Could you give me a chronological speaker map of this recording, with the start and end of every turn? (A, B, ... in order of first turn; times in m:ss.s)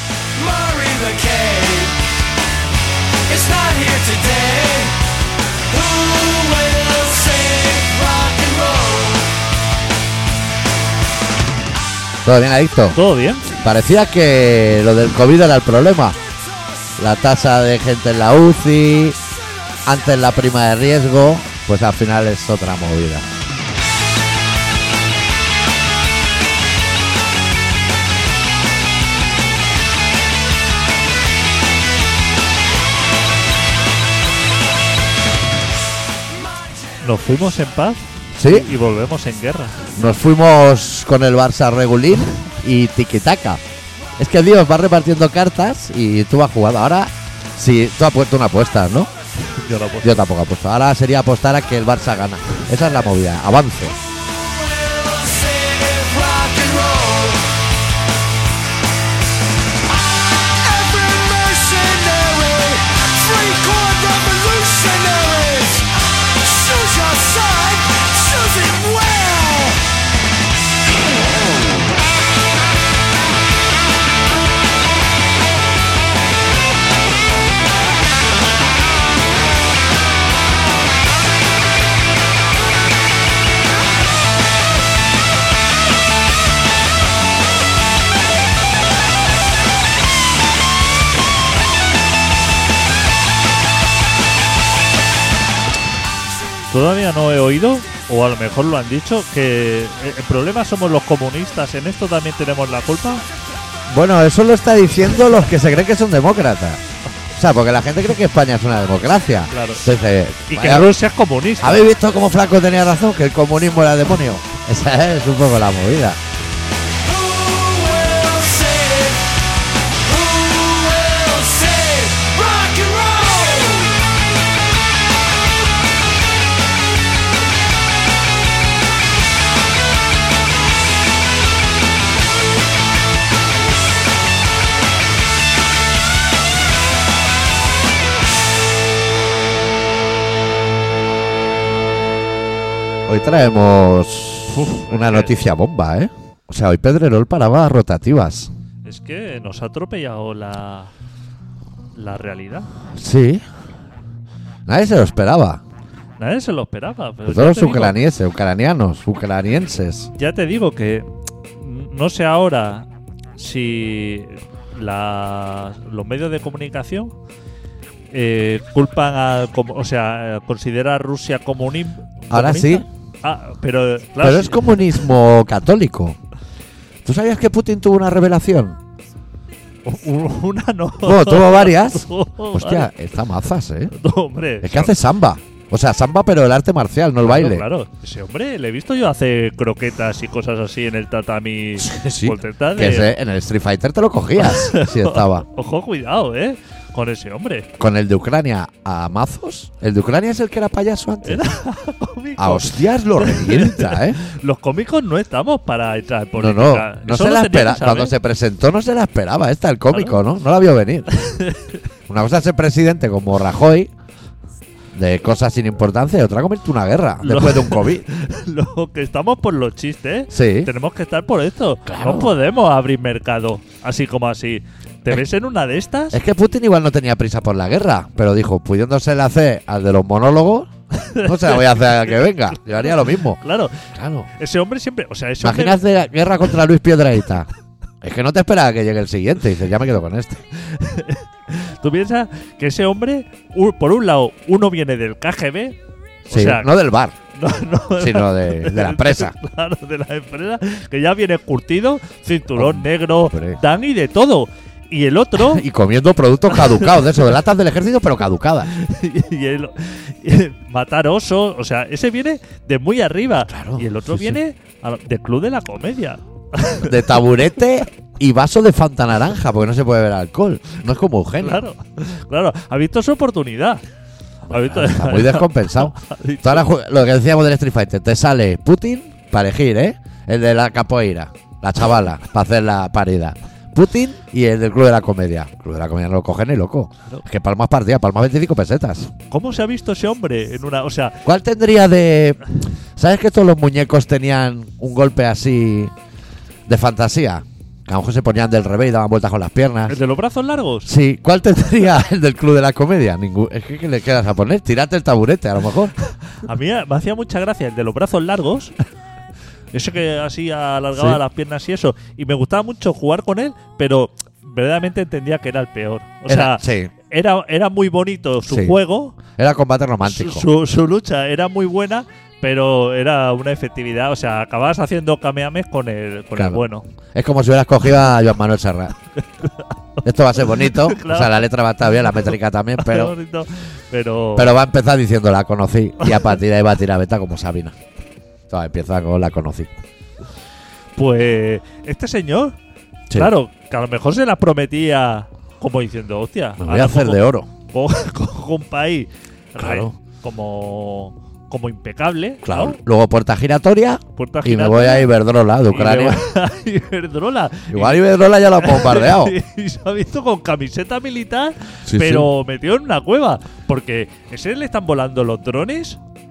0:00.4-0:02.0 A
0:03.3-0:05.0 A
0:05.7-0:09.4 A
0:12.2-0:13.0 B
0:12.9-0:13.5 C
0:13.6-0:16.2 B
0:17.0-0:19.2 B
0:19.9-0:23.3 B
0:37.0-0:39.9 C
0:38.4-0:38.7 B
0:40.0-0:43.6 B
0:44.2-0:49.1 B
0:49.6-0:50.2 C
0:50.0-0:54.0 B
0:54.3-0:57.6 A
1:00.4-1:09.8 A
1:36.7-1:43.2 C
1:43.9-1:46.8 B
1:47.4-1:50.9 B
1:49.5-1:49.8 C
1:50.5-1:51.8 C
1:51.6-1:56.2 B
1:57.1-1:59.3 A
2:00.0-2:04.0 A
2:23.1-2:28.5 B
2:24.5-2:25.4 C
2:28.8-2:30.9 C
2:32.0-2:32.7 C
2:32.9-2:33.4 B
2:34.7-2:35.6 B
2:36.2-2:38.0 C
2:37.3-2:40.1 B
2:40.2-2:47.1 C
2:48.1-2:54.8 C
2:52.3-2:52.9 B
2:54.2-2:56.2 B
2:57.0-2:58.8 B
2:59.8-3:02.9 C
3:01.0-3:03.9 B
3:03.9-3:05.0 C
3:04.6-3:07.6 B
3:07.2-3:13.1 C
3:11.8-3:15.4 B
3:14.4-3:17.7 C
3:17.8-3:21.5 B
3:21.2-3:28.2 C
3:22.4-3:24.2 B
3:26.4-3:31.1 B
3:29.9-3:30.2 C
3:31.2-3:31.8 C
3:32.1-3:33.9 B
3:35.0-3:38.0 B
3:37.2-3:46.2 C
3:40.3-3:40.7 B
3:41.9-3:42.3 B
3:46.1-3:53.4 B
3:50.9-3:52.2 C
3:52.9-3:55.8 C
3:53.9-3:54.3 B
3:55.4-3:57.5 B
3:58.0-4:00.4 B
4:00.5-4:05.8 C
4:06.3-4:06.7 C
4:06.3-4:07.2 B
4:07.4-4:15.6 C
4:08.0-4:09.4 B
4:12.5-4:13.6 B
4:15.4-4:18.7 B
4:16.5-4:17.0 C
4:18.7-4:27.2 C
4:23.5-4:24.4 B
4:26.8-4:31.6 B
4:31.4-4:33.8 C
4:34.5-4:36.7 C
4:34.5-4:49.1 B
4:49.3-4:51.2 C
4:51.2-4:55.9 B
4:56.7-5:00.0 B
4:59.9-5:00.9 C
5:00.9-5:05.9 B
5:06.3-5:08.8 C
5:09.7-5:19.2 C
5:10.9-5:11.2 B
5:16.3-5:16.9 B
5:18.5-5:18.8 B
5:19.3-5:20.5 B
5:20.0-5:26.9 C
5:26.4-5:26.6 B
5:27.1-5:28.9 B
5:29.2-5:31.5 C
5:30.0-5:33.1 B
5:32.1-5:34.6 C
5:34.4-5:37.8 B
5:36.0-5:36.3 C
5:38.5-5:39.7 B
5:41.0-5:42.6 C
5:43.1-5:52.8 C
5:46.6-5:47.5 B
5:49.6-5:49.9 B
5:52.4-5:56.2 B
5:54.2-5:55.1 C
5:55.7-5:58.0 C
5:57.7-5:59.4 B
5:58.6-6:06.0 C
6:01.9-6:02.3 B